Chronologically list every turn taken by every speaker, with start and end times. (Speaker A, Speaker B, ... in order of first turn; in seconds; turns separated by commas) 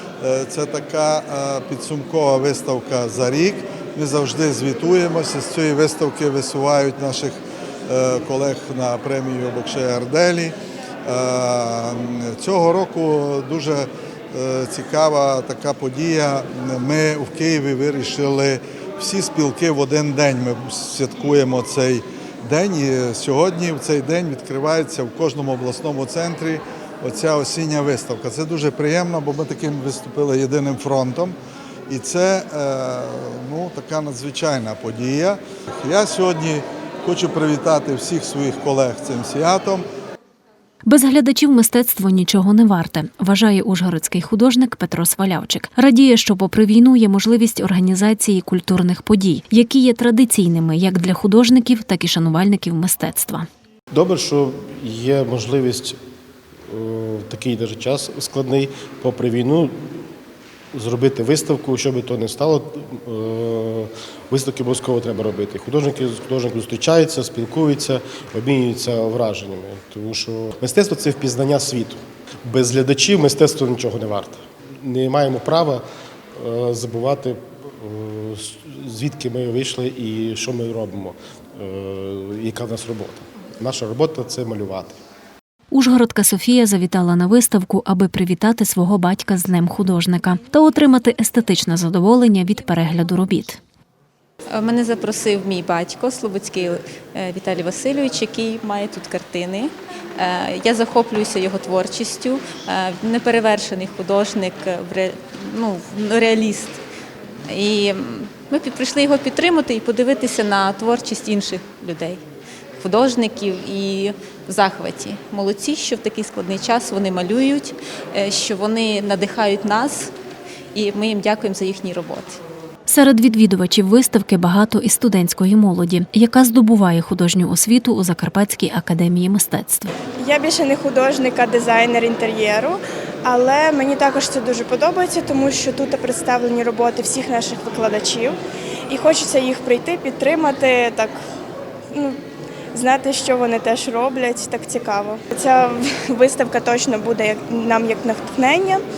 Speaker A: 0.2-31.4, Speaker A: 31.9-39.8, Speaker B: 40.8-53.5, Speaker C: 53.9-56.0, Speaker C: 56.7-60.1, Speaker C: 60.7-75.8, Speaker C: 76.4-85.0, Speaker B: 85.7-93.6, Speaker D: 94.5-106.8, Speaker D: 107.5-112.2, Speaker D: 112.8-120.1, Speaker D: 120.7-122.4, Speaker B: 122.9-129.9, Speaker E: 130.2-138.3, Speaker E: 138.9-141.2, Speaker E: 142.7-148.8